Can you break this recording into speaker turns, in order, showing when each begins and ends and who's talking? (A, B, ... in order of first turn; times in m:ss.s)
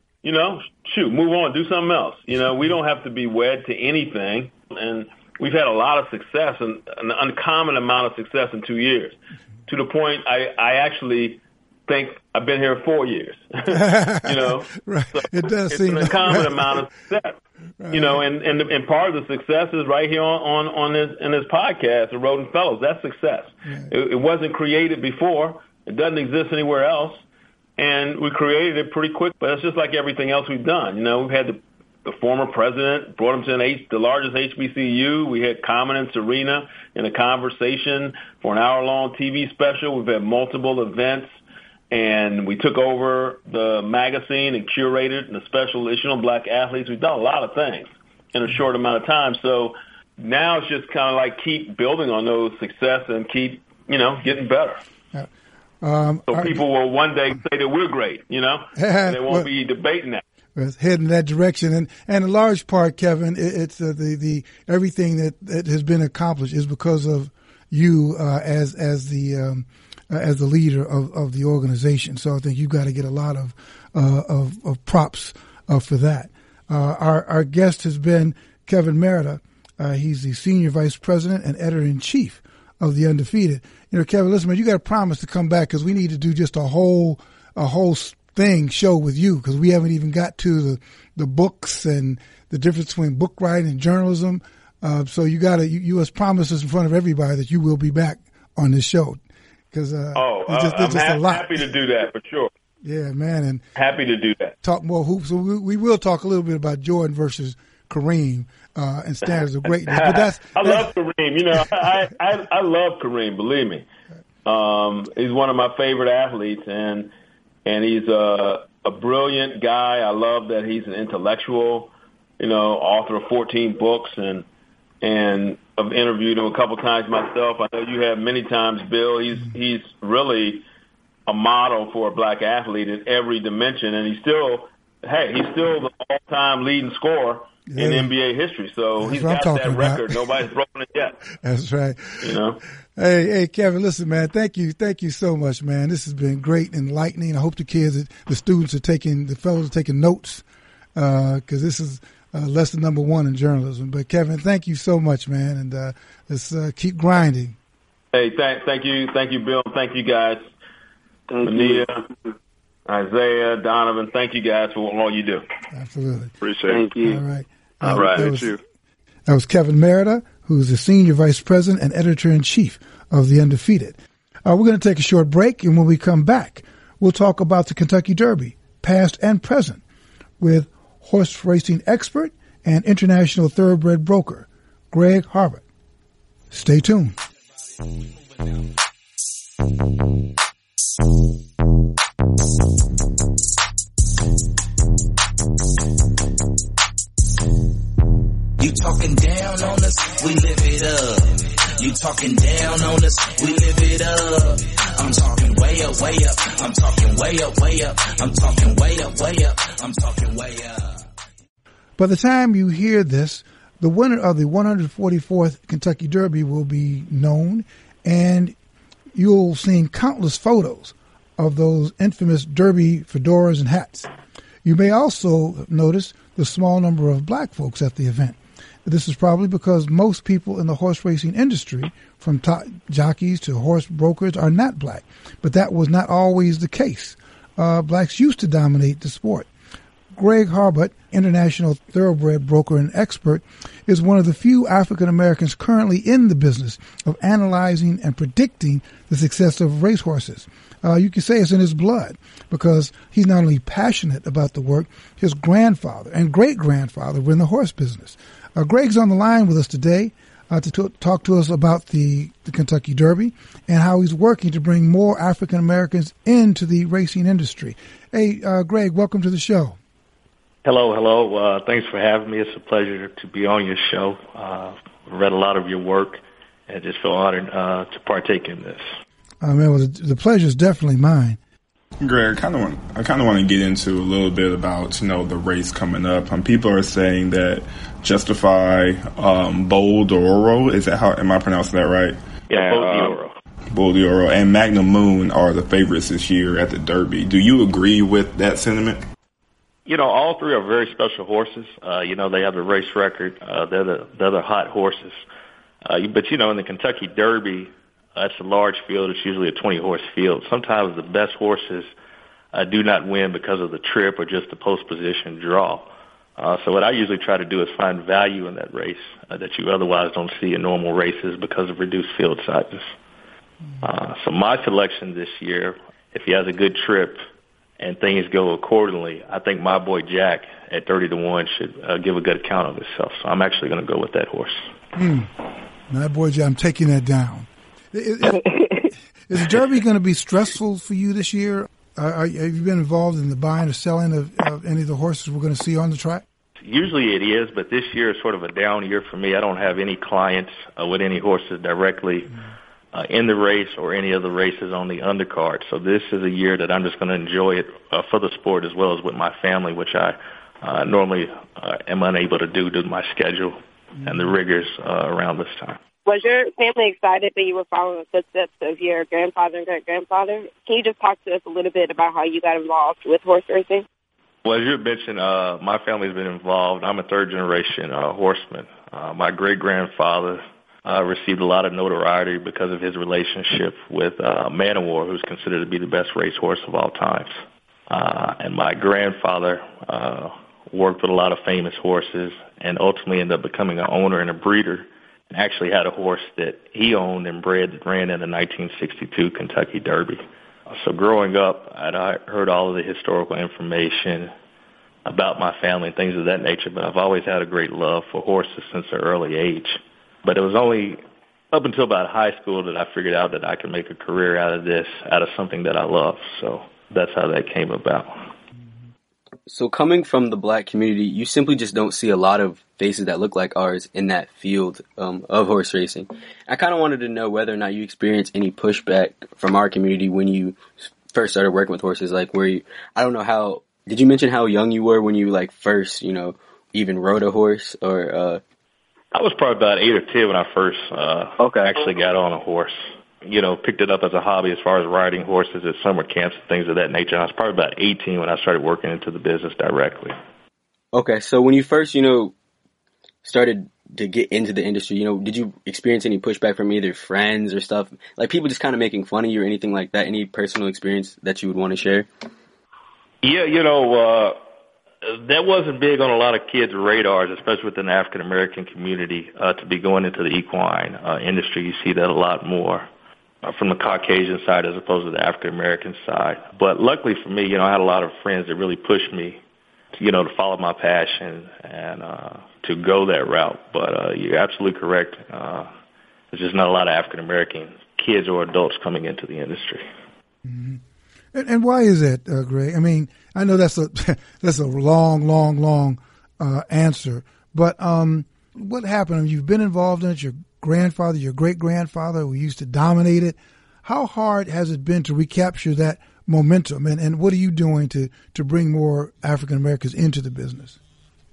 0:00.2-0:17.4 A
0:13.7-0:16.8 B
0:17.8-0:18.2 B
0:17.9-0:27.2 A
0:27.8-0:41.4 A
0:41.9-0:54.8 A
0:55.8-0:56.6 B
0:56.3-1:00.2 A
0:58.7-0:59.5 B
1:00.6-1:39.2 B
1:39.7-1:41.6 B
1:40.1-1:42.5 A
1:42.8-1:43.6 B
1:43.7-1:44.6 A
1:44.6-1:50.9 B
1:49.2-1:53.8 A
1:54.4-1:57.1 A
1:57.6-2:04.4 A
2:05.0-2:10.6 A
2:11.3-2:21.2 A
2:17.7-2:18.1 B
2:19.0-2:20.4 B
2:21.4-2:22.3 B
2:22.2-2:22.6 A
2:23.0-2:37.6 B
2:38.1-2:40.5 A
2:41.3-2:41.8 C
2:41.4-2:42.0 A
2:42.9-2:45.4 A
2:45.7-2:46.3 B
2:46.4-2:46.8 D
2:46.7-2:47.2 C
2:47.0-2:48.6 B
2:47.8-2:48.3 A
2:47.8-2:48.6 D
2:49.2-2:59.8 B
3:00.4-3:05.6 B
3:06.5-3:07.2 B
3:18.6-3:31.0 E
3:32.0-3:38.5 B
3:39.1-3:44.1 B
3:44.6-3:59.5 B
4:00.1-4:29.8 B
4:30.6-4:38.8 F
4:39.4-4:41.4 B
4:42.0-4:53.2 D
4:52.5-4:53.3 F
4:53.7-4:59.0 D
4:59.9-5:05.2 F
5:05.8-5:11.9 F
5:12.5-5:22.9 F
5:23.8-5:27.2 F
5:27.8-5:34.7 F
5:34.9-5:35.3 B
5:35.9-5:38.4 B
5:39.3-5:46.2 B
5:46.6-5:52.3 F
5:52.9-6:05.8 F
6:06.0-6:13.8 G
6:14.4-6:27.4 F
6:27.9-6:44.3 F
6:45.0-6:51.0 F
6:51.5-6:58.2 F
6:59.5-7:18.4 C
7:19.1-7:30.1 F
7:21.4-7:21.7 C
7:30.9-7:32.3 C
7:33.2-7:42.1 C
7:43.2-7:44.4 F
7:45.0-7:52.9 F
7:53.4-7:59.4 F
8:00.0-8:05.7 F
8:06.3-8:09.8 F
8:10.4-8:10.8 B
8:11.3-8:30.8 B